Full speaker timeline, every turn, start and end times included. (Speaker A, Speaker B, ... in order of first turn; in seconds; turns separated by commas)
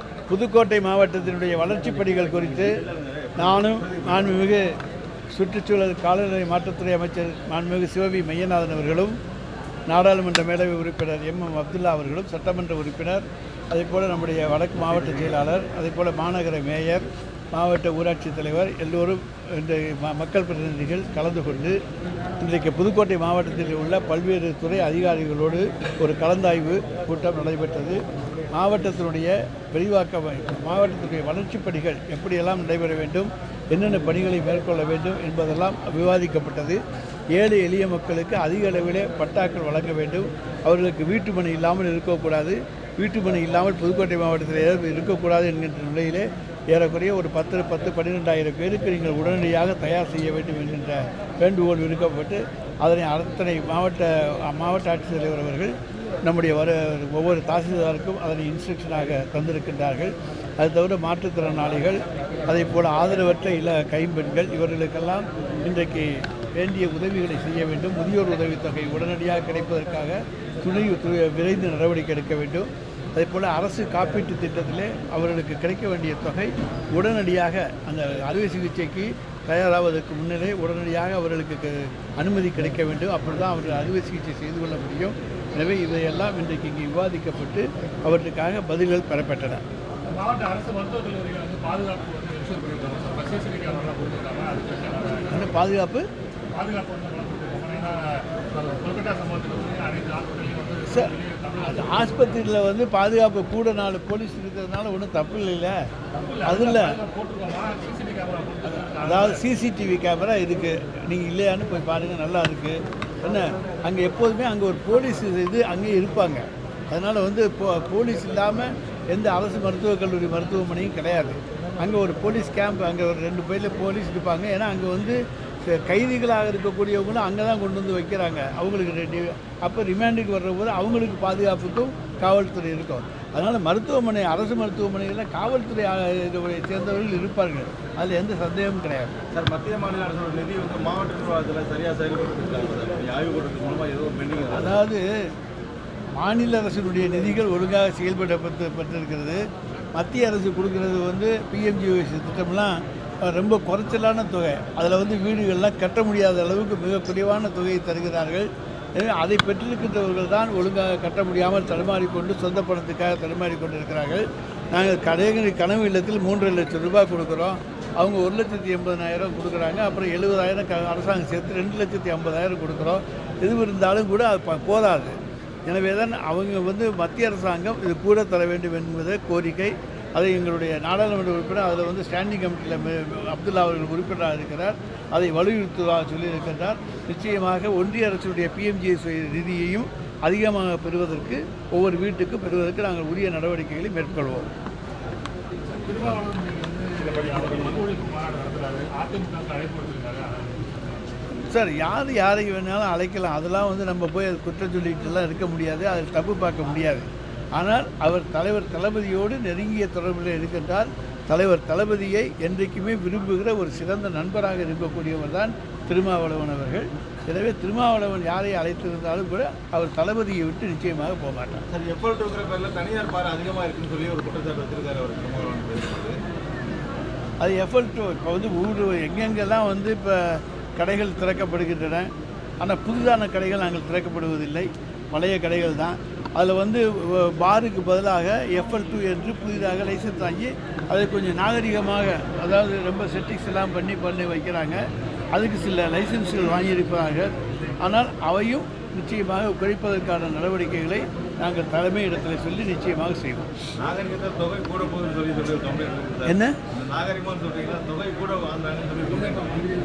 Speaker A: 0.3-2.8, Speaker B: 2.6-4.2, Speaker A: 3.4-4.7, Speaker A: 5.3-9.2, Speaker A: 9.9-21.8, Speaker A: 22.4-28.0, Speaker A: 28.5-36.8, Speaker A: 37.3-55.7, Speaker A: 56.2-89.6, Speaker C: 90.1-95.5, Speaker A: 95.3-96.0, Speaker C: 96.5-102.4, Speaker A: 100.9-101.1, Speaker A: 101.6-105.8, Speaker C: 106.1-109.4, Speaker A: 106.4-107.0, Speaker A: 108.7-139.2, Speaker B: 139.3-144.8, Speaker A: 144.5-145.1, Speaker A: 146.2-149.4, Speaker A: 149.9-194.5, Speaker C: 195.7-200.8, Speaker A: 201.5-221.6, Speaker B: 221.7-226.2, Speaker A: 227.4-244.8, Speaker A: 245.3-253.5, Speaker B: 253.8-259.6, Speaker A: 256.2-256.6